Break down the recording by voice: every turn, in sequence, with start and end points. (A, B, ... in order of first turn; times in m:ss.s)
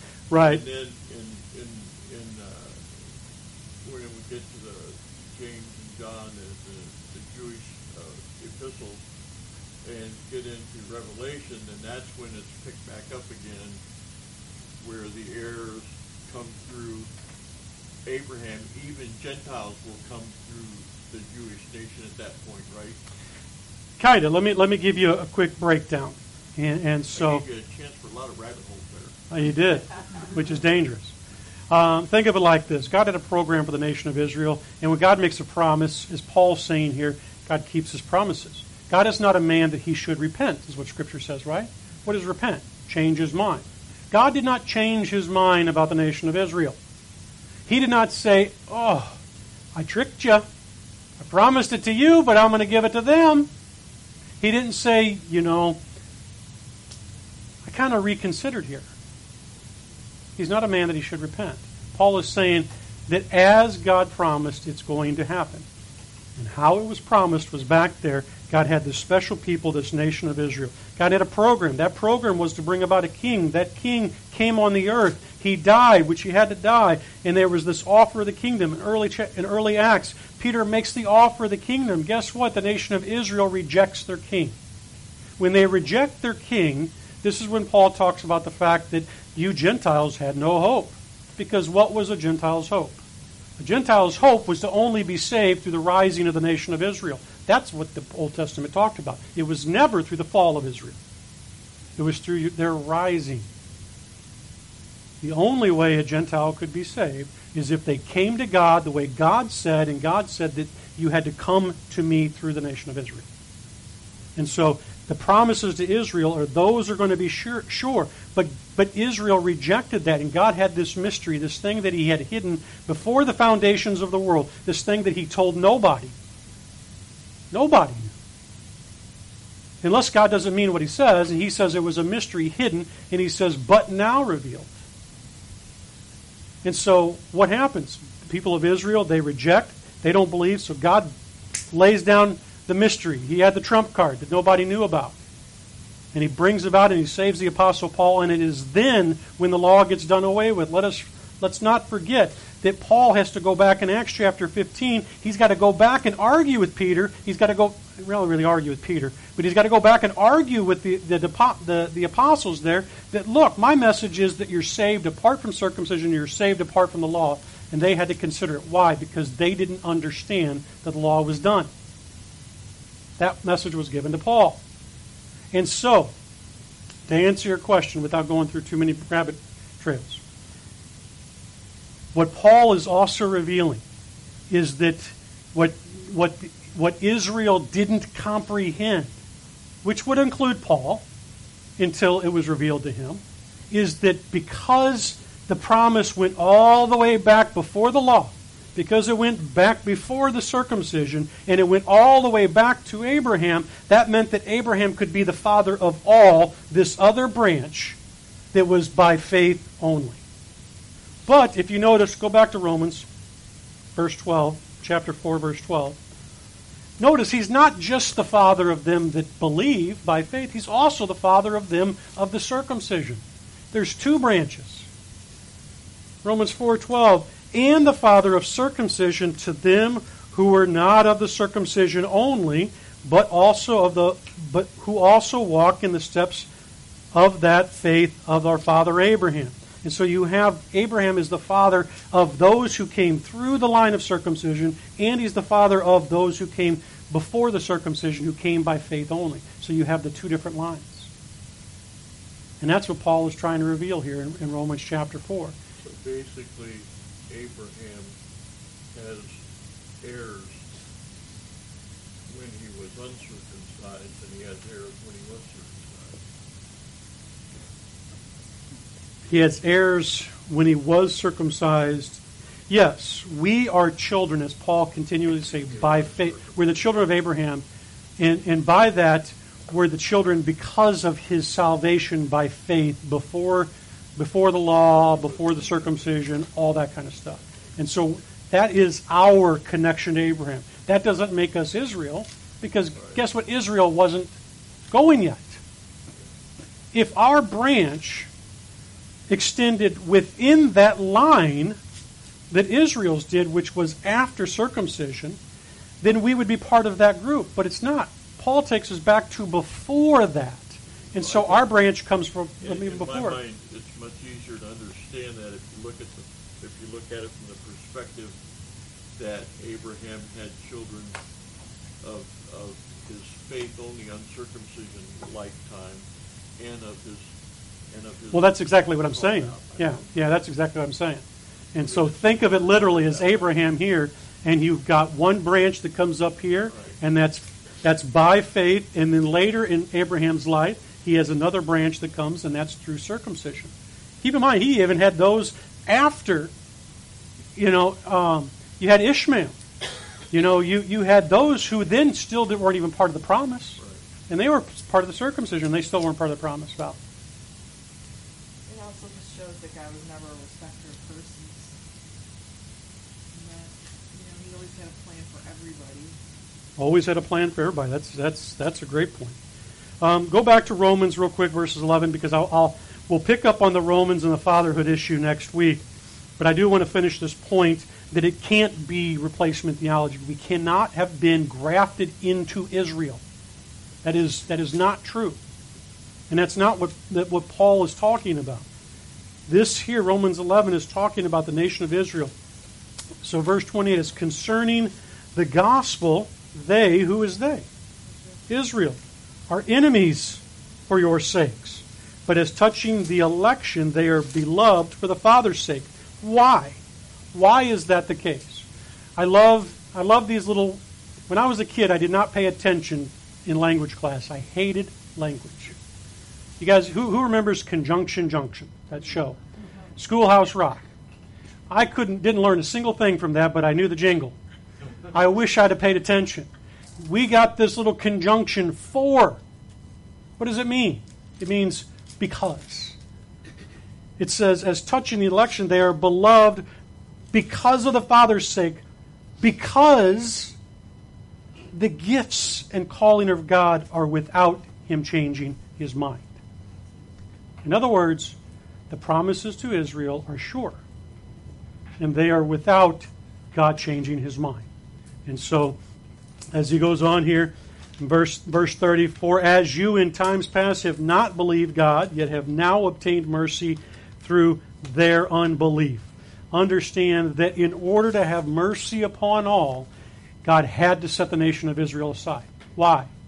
0:00.3-0:00.6 A
0:00.4-0:03.1 B
0:03.8-0:09.0 B
0:09.8-0:13.8 B
0:14.8-0:17.1 B
0:18.0-0:23.0 B
0:24.0-0:27.4 A
0:27.1-0:29.2 B
0:29.3-0:31.1 A
0:31.7-0:46.8 A
0:47.7-0:49.2 A
0:49.7-0:50.4 A
0:51.2-0:53.5 A
0:54.4-0:55.8 A
0:57.6-0:58.9 A
1:00.4-1:05.6 A
1:06.4-1:24.6 A
1:25.4-1:33.0 A
1:33.6-1:41.0 A
1:42.0-1:43.5 A
1:45.2-1:53.3 A
1:54.4-2:06.1 A
2:07.5-2:08.1 A
2:09.8-2:14.7 A
2:16.6-2:21.1 A
2:21.7-2:25.2 A
2:26.1-2:51.7 A
2:53.2-2:54.6 A
2:55.5-2:56.1 A
2:57.1-3:00.2 A
3:02.1-3:03.8 A
3:04.5-3:09.1 A
3:09.8-3:11.0 A
3:11.8-3:28.0 A
3:28.5-3:30.2 A
3:31.2-3:33.0 A
3:34.0-3:36.0 A
3:37.0-3:44.9 A
3:46.2-3:56.5 A
3:57.1-4:11.1 A
4:12.6-4:15.5 A
4:15.8-4:18.1 B
4:18.9-4:19.4 B
4:20.0-4:20.6 B
4:22.3-4:26.2 B
4:29.3-4:37.6 A
4:35.7-4:36.5 B
4:38.2-4:54.3 A
4:45.2-4:45.8 B
4:54.9-4:55.6 A
4:56.9-4:58.3 A
4:59.3-5:01.8 A
5:02.5-5:05.4 A
5:06.0-5:13.4 A
5:11.1-5:11.7 B
5:12.6-5:18.4 B
5:19.2-5:21.2 B
5:22.0-5:26.0 B
5:26.6-5:27.3 B
5:27.9-5:30.2 B
5:28.3-5:46.5 A
5:31.8-5:33.5 B
5:36.7-5:37.0 B
5:47.6-5:49.6 A
5:50.3-5:57.0 A
5:53.8-5:54.0 B
5:58.7-6:01.7 C
6:03.3-6:06.2 C
6:06.8-6:09.4 A
6:10.0-6:15.8 A
6:16.4-6:23.2 A
6:24.0-6:25.4 A
6:26.3-6:28.6 A
6:29.5-6:32.3 A
6:33.2-6:37.6 A
6:38.5-6:46.8 A
6:47.3-6:48.6 A
6:49.2-6:55.7 A
6:56.6-6:59.4 A
7:00.0-7:00.8 A
7:01.7-7:04.4 A
7:05.1-7:06.5 A
7:07.0-7:09.4 A
7:10.4-7:13.0 A
7:14.2-7:16.6 A
7:17.3-7:18.8 A
7:19.4-7:20.5 A
7:21.7-7:26.3 A
7:27.6-7:28.4 A
7:28.9-7:30.8 A
7:32.0-7:34.7 A
7:35.2-7:35.8 A
7:36.5-7:49.9 A
7:50.4-7:53.1 A